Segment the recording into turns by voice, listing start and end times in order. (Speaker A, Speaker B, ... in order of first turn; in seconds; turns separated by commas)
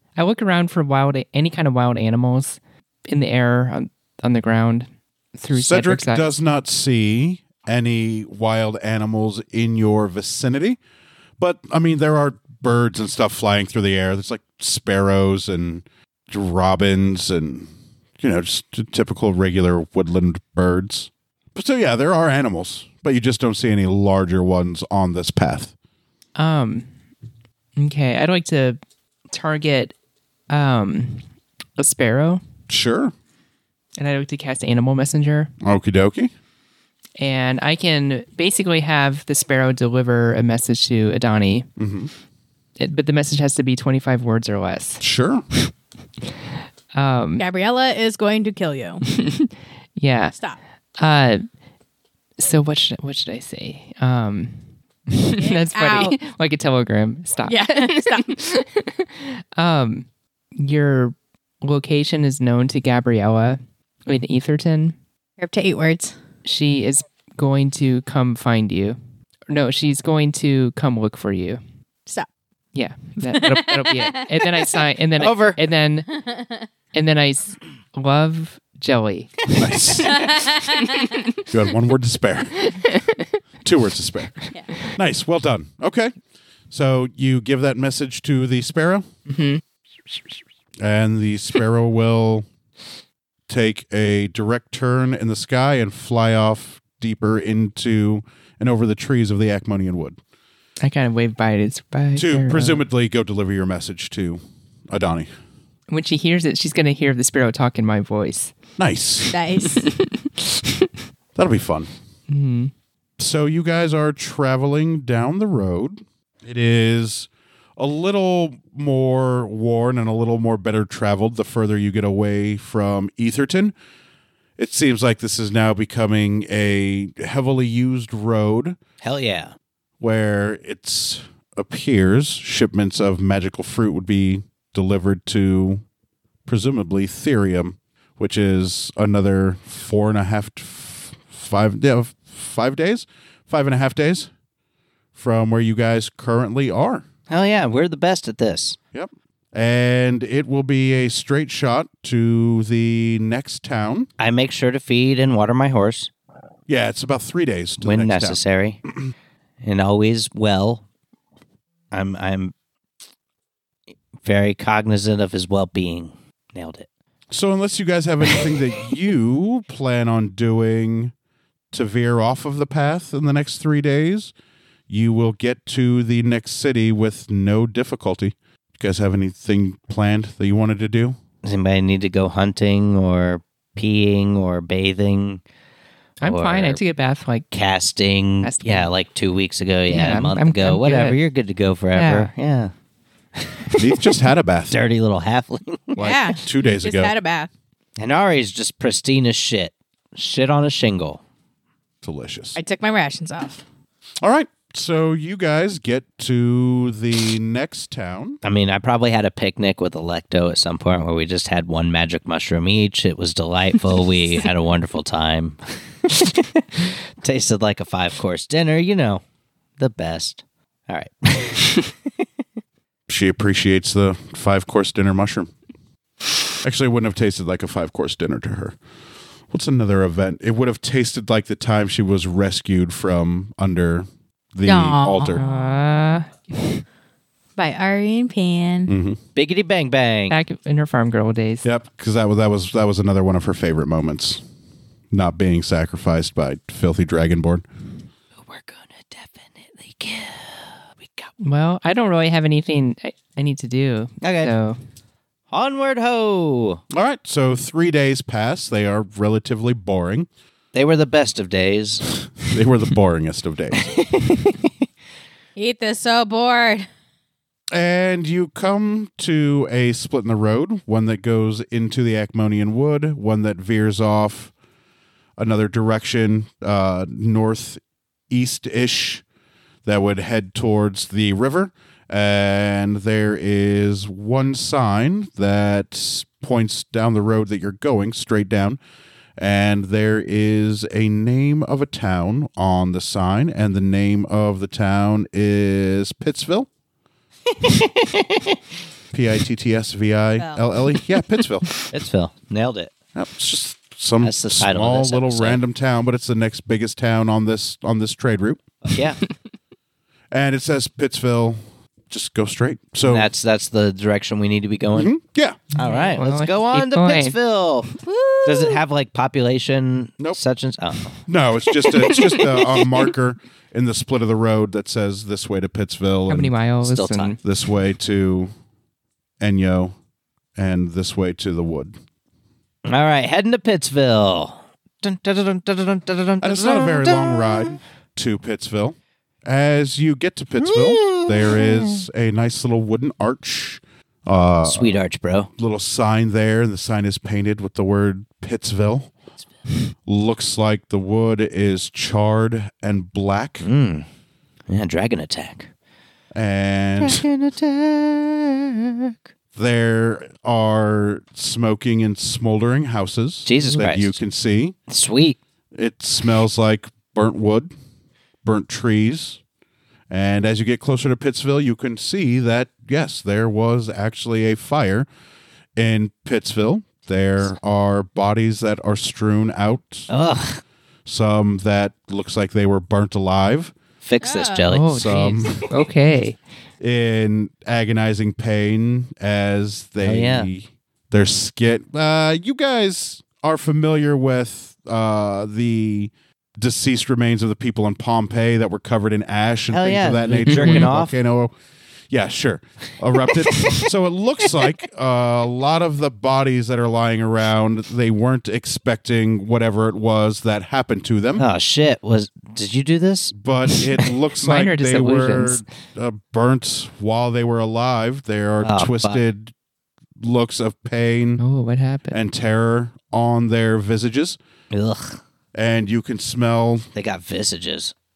Speaker A: 0.1-6.2, Speaker B: 5.5-10.8, Speaker B: 11.4-25.7, Speaker A: 26.4-26.9, Speaker A: 27.8-29.9, Speaker A: 30.5-32.4, Speaker B: 32.7-33.1, Speaker A: 34.0-35.5, Speaker B: 35.6-36.3, Speaker A: 37.2-41.7, Speaker B: 41.8-42.1, Speaker A: 42.8-45.0, Speaker B: 45.0-45.4, Speaker A: 46.9-47.4, Speaker C: 47.4-49.0, Speaker A: 49.1-50.3, Speaker A: 51.0-51.5, Speaker A: 52.4-64.9, Speaker C: 55.4-56.2, Speaker C: 57.5-58.3, Speaker C: 65.4-66.2, Speaker A: 66.4-69.0, Speaker A: 69.5-71.6, Speaker A: 72.7-76.2, Speaker C: 73.3-74.7, Speaker D: 75.2-75.6, Speaker C: 76.2-76.6, Speaker A: 76.9-80.3, Speaker B: 79.5-80.3, Speaker C: 80.0-81.0, Speaker A: 80.9-81.4, Speaker B: 81.5-82.7, Speaker A: 82.7-83.2, Speaker B: 83.6-86.1, Speaker B: 86.7-89.0, Speaker A: 89.3-89.6, Speaker B: 90.8-92.4, Speaker B: 93.5-100.2, Speaker A: 100.8-102.8, Speaker B: 102.1-105.3, Speaker A: 105.9-108.5, Speaker B: 108.8-109.3, Speaker C: 109.3-109.8, Speaker A: 109.6-110.9, Speaker B: 111.3-111.9, Speaker A: 112.3-112.7, Speaker B: 113.2-123.7, Speaker B: 124.6-128.8, Speaker D: 129.0-129.5, Speaker B: 130.0-135.8, Speaker B: 136.4-144.3, Speaker B: 145.1-147.1, Speaker D: 147.3-148.8, Speaker B: 148.9-154.1, Speaker D: 154.2-156.1, Speaker B: 156.7-158.4, Speaker D: 157.8-158.8, Speaker D: 159.6-160.8, Speaker D: 161.9-162.5, Speaker D: 164.2-166.9, Speaker B: 167.3-171.1, Speaker B: 171.7-174.3, Speaker B: 174.9-181.2, Speaker D: 181.4-185.4, Speaker A: 186.2-187.4, Speaker D: 186.2-186.8, Speaker D: 187.5-192.7, Speaker A: 188.4-188.9, Speaker A: 189.9-191.2, Speaker A: 191.9-192.3, Speaker D: 193.3-193.8, Speaker B: 193.8-194.8, Speaker D: 194.7-196.1, Speaker B: 195.9-197.1, Speaker C: 196.0-197.5, Speaker D: 198.0-201.2, Speaker B: 202.0-202.6, Speaker C: 202.6-203.6, Speaker B: 204.2-208.4, Speaker D: 208.4-219.2, Speaker D: 219.8-221.9, Speaker B: 223.1-225.5, Speaker B: 226.6-228.8, Speaker B: 229.5-235.4, Speaker C: 234.6-235.4, Speaker A: 235.3-236.8, Speaker C: 237.6-238.9, Speaker B: 238.9-239.2, Speaker D: 239.3-240.3, Speaker A: 240.3-241.7, Speaker B: 241.6-244.4, Speaker B: 245.1-247.6, Speaker D: 248.4-251.3, Speaker A: 251.4-254.8, Speaker D: 254.2-254.5, Speaker D: 255.5-256.8, Speaker B: 256.9-260.3, Speaker D: 260.7-262.0, Speaker B: 262.4-263.9, Speaker D: 263.8-264.7, Speaker C: 265.6-266.9, Speaker B: 267.7-274.5, Speaker B: 275.4-279.2, Speaker B: 279.8-288.8, Speaker B: 289.4-296.7, Speaker D: 297.6-298.5, Speaker B: 299.1-301.7, Speaker D: 301.9-302.9, Speaker B: 303.1-308.6, Speaker D: 304.2-305.6, Speaker D: 308.8-309.2, Speaker B: 310.3-311.6, Speaker B: 312.1-313.3, Speaker D: 313.0-315.1, Speaker B: 314.9-315.6, Speaker A: 315.8-317.4, Speaker D: 315.8-321.2, Speaker C: 318.0-318.8, Speaker B: 321.2-326.5, Speaker A: 326.3-327.4, Speaker D: 326.8-327.4, Speaker B: 327.4-328.5, Speaker B: 329.4-329.9, Speaker B: 330.6-332.0, Speaker D: 332.8-337.8, Speaker B: 336.4-344.9, Speaker D: 340.6-342.1, Speaker D: 344.6-345.5, Speaker B: 345.6-349.1, Speaker B: 350.1-353.6, Speaker D: 353.6-354.1, Speaker D: 354.7-355.7, Speaker B: 356.3-357.2, Speaker D: 357.0-359.1, Speaker B: 359.6-364.8, Speaker D: 363.4-364.1, Speaker D: 364.9-365.4, Speaker B: 365.7-367.7, Speaker B: 368.4-369.4, Speaker B: 370.1-375.1, Speaker B: 375.8-380.1, Speaker D: 380.1-380.6, Speaker B: 381.1-383.7, Speaker D: 384.0-385.0, Speaker C: 384.2-384.6, Speaker A: 384.7-386.4, Speaker B: 384.8-385.6, Speaker B: 386.8-401.5, Speaker D: 390.0-390.5, Speaker D: 399.7-401.1, Speaker A: 400.4-400.9, Speaker B: 402.1-411.4, Speaker D: 403.3-403.8, Speaker D: 411.4-413.3, Speaker B: 413.3-419.5, Speaker A: 414.4-415.6, Speaker D: 418.6-419.2, Speaker B: 420.2-421.4, Speaker A: 421.4-422.2, Speaker B: 422.1-424.4, Speaker D: 424.7-425.2, Speaker B: 425.5-426.9, Speaker D: 426.9-427.9